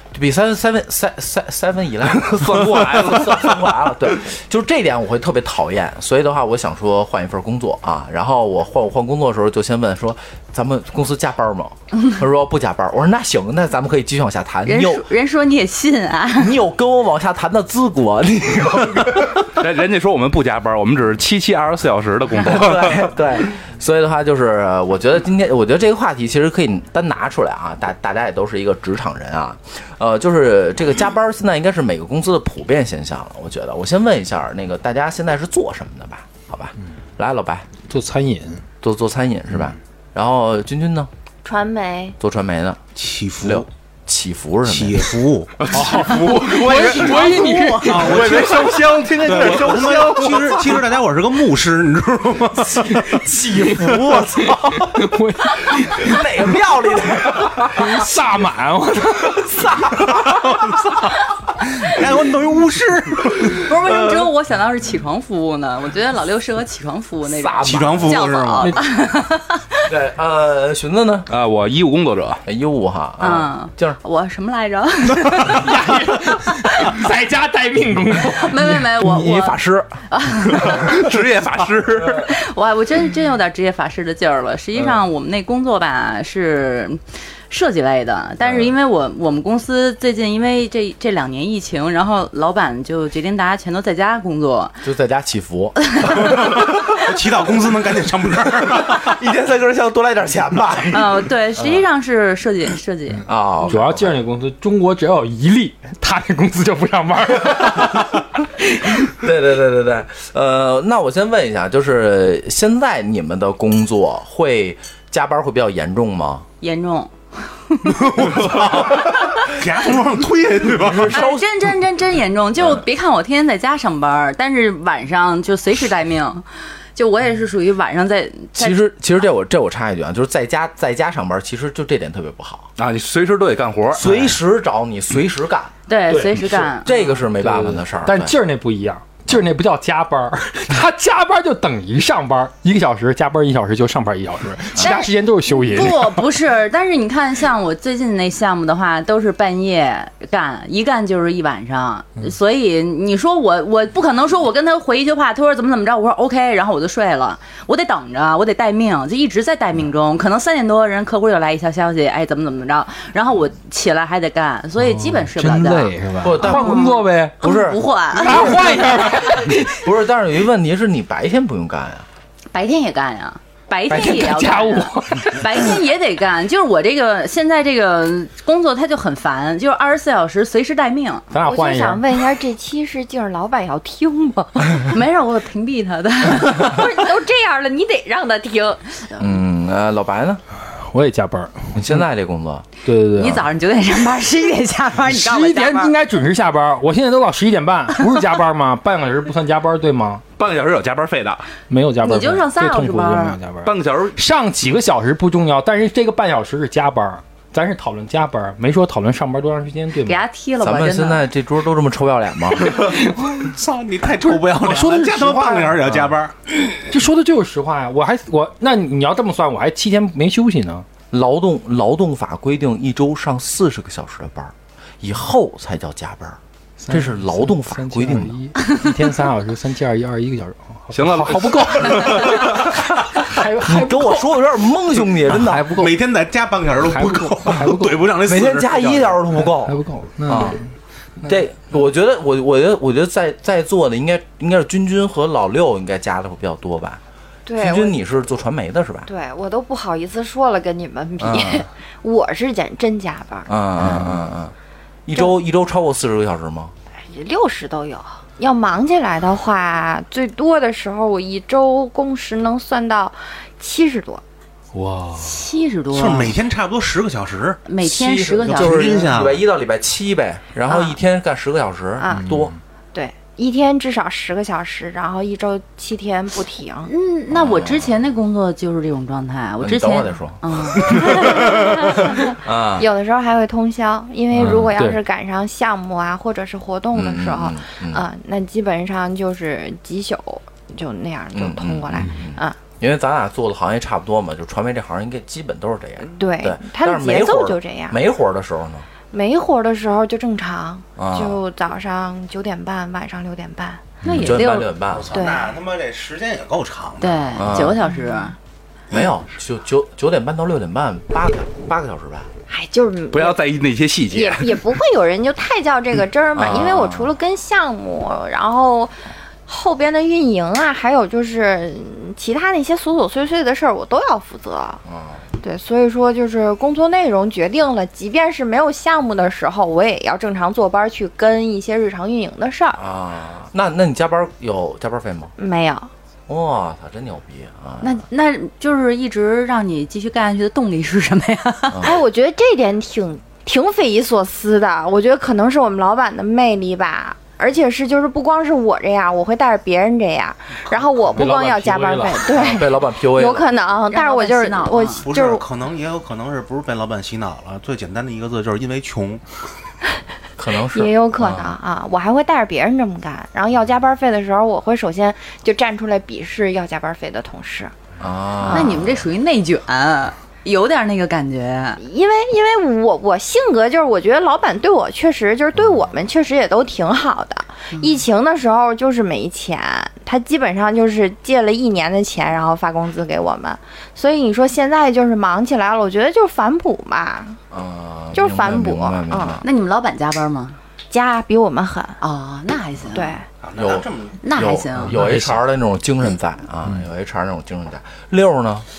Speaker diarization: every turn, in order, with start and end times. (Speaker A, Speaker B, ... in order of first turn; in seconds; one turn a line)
Speaker A: 0.1-15.1
Speaker B: 2.2-3.6
Speaker C: 14.7-16.6
Speaker A: 16.4-19.5
Speaker B: 19.5-23.1
Speaker A: 22.4-37.7
Speaker D: 37.9-38.6
Speaker A: 38.8-41.1
Speaker E: 41.4-42.2
Speaker A: 42.2-42.8
Speaker F: 43.0-43.7
Speaker A: 43.4-45.1
Speaker F: 44.7-55.0
Speaker B: 45.6-50.7
Speaker D: 45.7-48.4
Speaker D: 52.7-56.5
Speaker A: 56.0-58.1
Speaker D: 57.7-59.8
Speaker A: 59.6-60.2
Speaker F: 60.2-60.8
Speaker F: 61.8-64.3
Speaker C: 63.5-69.8
Speaker A: 67.4-68.1
Speaker F: 67.6-68.7
Speaker A: 69.9-71.3
Speaker B: 71.3-72.4
Speaker A: 72.5-74.0
Speaker C: 73.2-77.0
Speaker D: 75.4-78.9
Speaker C: 78.2-81.0
Speaker A: 79.0-80.0
Speaker B: 80.6-82.3
Speaker C: 82.2-94.8
Speaker A: 88.4-88.7
Speaker A: 94.8-96.8
Speaker C: 96.0-96.3
Speaker F: 96.3-99.1
Speaker A: 98.7-101.8
Speaker C: 100.9-103.2
Speaker A: 103.3-104.2
Speaker D: 103.6-108.2
Speaker A: 107.6-108.0
Speaker A: 109.0-116.5
Speaker C: 116.6-118.1
Speaker F: 117.8-121.3
Speaker A: 120.8-121.5
Speaker C: 121.0-128.8
Speaker A: 128.6-132.7
Speaker B: 132.8-134.3
Speaker A: 133.9-135.7
Speaker C: 135.9-136.9
Speaker D: 136.1-146.3
Speaker A: 136.8-138.4
Speaker A: 144.8-145.0
Speaker C: 144.8-169.7
Speaker D: 164.8-167.4
Speaker A: 166.2-166.9
Speaker A: 167.4-172.1
Speaker D: 168.2-169.7
Speaker C: 172.5-181.2
Speaker D: 173.9-175.8
Speaker D: 181.3-182.0
Speaker E: 181.4-184.9
Speaker C: 184.9-186.9
Speaker E: 186.4-189.2
Speaker A: 189.2-190.4
Speaker D: 190.7-192.0
Speaker A: 191.8-192.7
Speaker D: 192.8-193.5
Speaker C: 193.2-195.9
Speaker D: 195.0-200.2
Speaker B: 200.4-201.5
Speaker D: 201.7-210.2
Speaker C: 202.0-203.4
Speaker B: 203.6-204.2
Speaker C: 210.0-211.3
Speaker A: 210.6-212.8
Speaker D: 212.9-213.5
Speaker F: 213.3-216.3
Speaker D: 214.2-216.1
Speaker D: 216.7-220.9
Speaker A: 221.1-228.4
Speaker D: 226.8-234.3
Speaker B: 230.9-232.7
Speaker A: 233.3-235.7
Speaker D: 235.3-236.0
Speaker F: 235.8-239.1
Speaker D: 236.8-238.1
Speaker A: 238.2-240.6
Speaker D: 239.4-240.6
Speaker A: 241.2-247.0
Speaker E: 247.5-248.0
Speaker A: 247.6-249.1
Speaker E: 249.1-254.3
Speaker A: 251.2-251.7
Speaker A: 253.5-254.5
Speaker A: 255.1-256.7
Speaker E: 257.0-264.2
Speaker D: 264.7-265.5
Speaker C: 265.2-266.4
Speaker F: 265.9-267.6
Speaker C: 267.7-269.0
Speaker A: 267.8-272.5
Speaker F: 268.4-269.4
Speaker E: 270.7-271.0
Speaker E: 272.0-272.4
Speaker D: 272.1-272.6
Speaker E: 272.9-276.9
Speaker C: 276.9-282.0
Speaker A: 277.3-278.0
Speaker A: 279.6-282.9
Speaker E: 281.0-292.6
Speaker D: 284.4-285.0
Speaker A: 286.9-288.1
Speaker A: 291.3-298.9
Speaker E: 296.2-298.0
Speaker E: 299.1-303.9
Speaker A: 301.0-301.4
Speaker D: 304.0-304.4
Speaker C: 304.0-304.7
Speaker A: 304.2-305.1
Speaker F: 304.9-307.3
Speaker E: 305.1-305.6
Speaker C: 307.0-308.4
Speaker A: 307.4-307.8
Speaker A: 308.9-312.3
Speaker E: 312.5-313.4
Speaker B: 313.1-314.7
Speaker E: 314.1-324.8
Speaker A: 316.3-317.1
Speaker A: 324.9-325.2
Speaker E: 325.4-332.8
Speaker A: 332.8-335.3
Speaker E: 335.4-335.9
Speaker A: 336.3-337.9
Speaker C: 337.8-341.8
Speaker A: 341.7-342.0
Speaker E: 341.8-355.5
Speaker D: 351.1-352.3
Speaker A: 352.3-353.5
Speaker C: 353.9-355.1
Speaker F: 355.0-359.2
Speaker A: 360.4-361.6
Speaker E: 360.6-367.7
Speaker A: 368.0-369.0
Speaker E: 368.4-368.9
Speaker C: 368.5-371.8
Speaker E: 371.8-387.4
Speaker C: 377.7-378.0
Speaker A: 387.5-389.4
Speaker E: 388.1-389.4
Speaker C: 389.4-390.6
Speaker E: 390.9-392.0
Speaker C: 392.0-393.2
Speaker E: 392.9-393.3
Speaker F: 393.4-394.5
Speaker A: 393.6-398.7
Speaker C: 394.2-395.0
Speaker D: 394.9-395.4